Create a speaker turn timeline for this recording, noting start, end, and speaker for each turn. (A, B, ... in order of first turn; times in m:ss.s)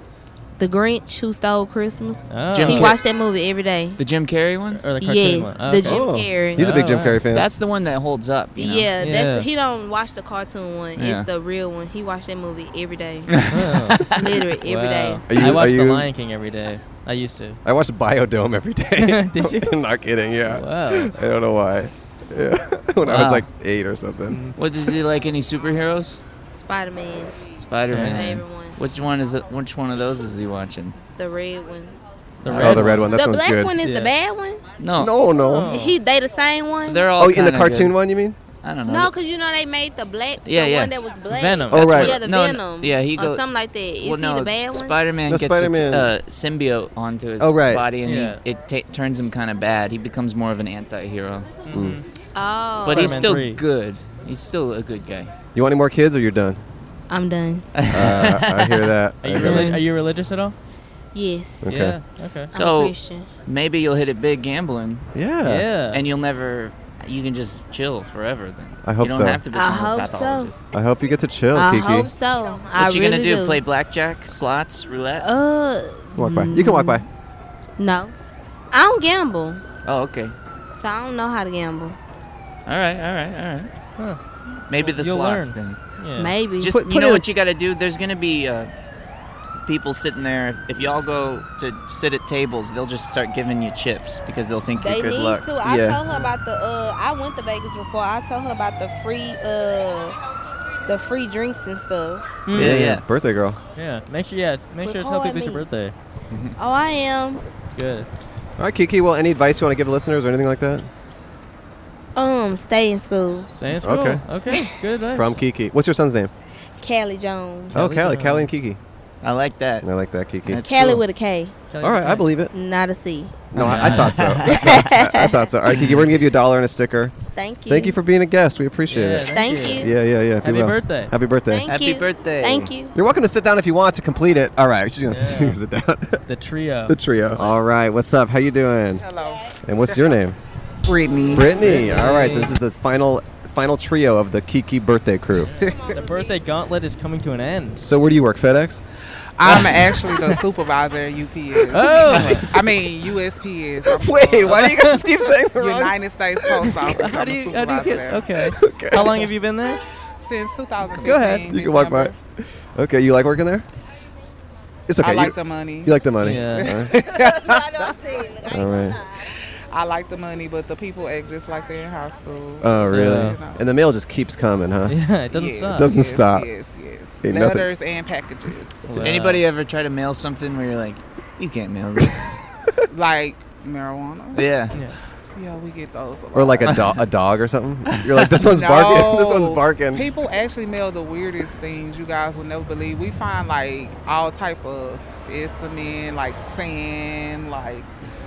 0:00.6-0:04.0 A
0:02.3-0:03.0 B
0:02.5-0:03.0 C
0:04.0-0:04.9 C
0:04.8-0:07.2 B
0:05.0-0:06.8 A
0:05.8-0:07.5 D
0:07.2-0:08.9 C
0:08.6-0:13.3 A
0:09.0-0:09.5 B
0:11.0-0:11.3 C
0:13.3-0:14.4 C
0:13.5-0:14.1 B
0:14.1-0:15.4 A
0:14.6-0:17.6 B
0:15.3-0:16.1 D
0:17.6-0:24.6 D
0:19.0-0:19.8 B
0:20.4-0:21.1 B
0:23.0-0:23.5 C
0:24.3-0:24.6 B
0:24.6-0:26.2 C
0:26.5-0:28.8 A
0:27.5-0:31.0 C
0:27.9-0:28.3 B
0:31.1-0:32.0 A
0:32.4-0:33.2 B
0:32.5-0:33.7 D
0:32.5-0:33.0 C
0:33.0-0:34.6 A
0:33.8-0:34.1 B
0:34.8-0:35.2 C
0:35.0-0:35.8 D
0:35.3-0:36.0 B
0:35.7-0:37.1 A
0:36.9-0:38.0 C
0:37.2-0:38.4 D
0:38.6-0:39.1 C
0:38.9-0:45.0 A
0:40.4-0:40.9 C
0:41.3-0:42.1 B
0:41.7-0:42.3 D
0:41.8-0:43.5 C
0:44.0-0:51.5 C
0:45.3-0:46.1 D
0:47.4-0:47.8 D
0:48.0-0:48.4 B
0:51.6-0:52.1 B
0:51.7-0:52.0 D
0:52.4-0:53.3 A
0:52.8-0:55.3 C
0:52.8-0:53.6 B
0:55.6-0:56.6 D
0:57.1-0:57.7 A
0:57.7-0:58.9 C
0:57.9-0:59.8 D
0:59.2-1:00.6 B
0:59.4-0:59.8 A
1:01.1-1:02.0 A
1:01.6-1:02.0 D
1:01.7-1:02.5 B
1:02.5-1:03.3 A
1:02.5-1:05.1 C
1:05.1-1:05.7 D
1:05.4-1:06.0 B
1:05.9-1:10.6 C
1:08.8-1:09.4 D
1:09.5-1:10.5 A
1:10.7-1:12.1 D
1:11.5-1:13.6 A
1:12.8-1:15.3 C
1:15.2-1:17.0 A
1:16.2-1:17.0 D
1:17.8-1:18.1 A
1:18.7-1:19.6 A
1:19.8-1:20.4 C
1:20.7-1:22.0 A
1:22.7-1:23.7 C
1:24.7-1:25.8 C
1:24.8-1:26.4 B
1:26.2-1:26.8 A
1:26.6-1:28.7 C
1:26.7-1:27.2 D
1:29.6-1:35.5 C
1:34.8-1:40.2 A
1:35.6-1:36.0 D
1:40.8-1:42.4 A
1:42.5-1:42.9 B
1:42.5-1:43.6 D
1:42.5-1:43.0 C
1:43.8-1:46.0 B
1:44.8-1:45.7 A
1:46.3-1:46.6 C
1:46.6-1:47.4 A
1:47.8-1:48.1 B
1:48.6-1:50.9 D
1:52.2-1:53.5 A
1:53.6-1:55.4 B
1:53.8-1:54.2 D
1:55.1-1:56.3 D
1:56.8-1:57.8 A
1:57.7-1:58.5 B
1:57.7-1:58.8 D
1:59.2-1:59.9 C
1:59.8-2:00.7 D
2:00.5-2:01.0 C
2:00.6-2:01.5 A
2:01.7-2:02.3 B
2:01.8-2:02.5 D
2:02.5-2:03.5 A
2:03.5-2:07.2 D
2:03.6-2:04.8 C
2:03.6-2:03.9 B
2:04.4-2:05.4 A
2:05.7-2:06.0 C
2:07.3-2:08.0 A
2:07.7-2:11.7 D
2:08.9-2:11.1 B
2:09.2-2:09.9 A
2:11.5-2:13.0 A
2:11.7-2:12.7 C
2:12.9-2:16.2 D
2:15.1-2:15.6 B
2:16.3-2:17.5 B
2:16.9-2:19.1 D
2:19.0-2:20.0 E
2:19.6-2:20.4 D
2:20.8-2:21.7 E
2:21.3-2:25.5 D
2:21.4-2:22.6 B
2:25.4-2:27.8 B
2:25.6-2:25.9 E
2:27.8-2:28.8 D
2:29.4-2:35.0 E
2:31.7-2:32.5 B
2:32.0-2:32.5 C
2:32.0-2:32.8 D
2:33.8-2:37.0 D
2:34.4-2:35.0 B
2:35.6-2:38.4 E
2:36.9-2:39.8 B
2:38.4-2:39.3 D
2:40.2-2:42.2 E
2:41.0-2:41.5 B
2:41.5-2:43.7 D
2:44.9-2:47.0 D
2:45.0-2:48.2 E
2:46.2-2:46.7 B
2:48.5-2:49.0 D
2:49.3-2:53.7 E
2:52.6-2:55.0 D
2:52.9-2:53.4 B
2:54.9-2:55.9 B
2:55.3-2:59.0 E
2:55.7-2:56.5 D
2:57.2-2:57.7 D
2:58.9-2:59.5 B
2:58.9-3:02.3 C
3:02.9-3:04.6 E
3:04.3-3:04.8 C
3:05.3-3:07.0 E
3:06.3-3:10.1 D
3:07.9-3:08.2 C
3:08.4-3:17.9 E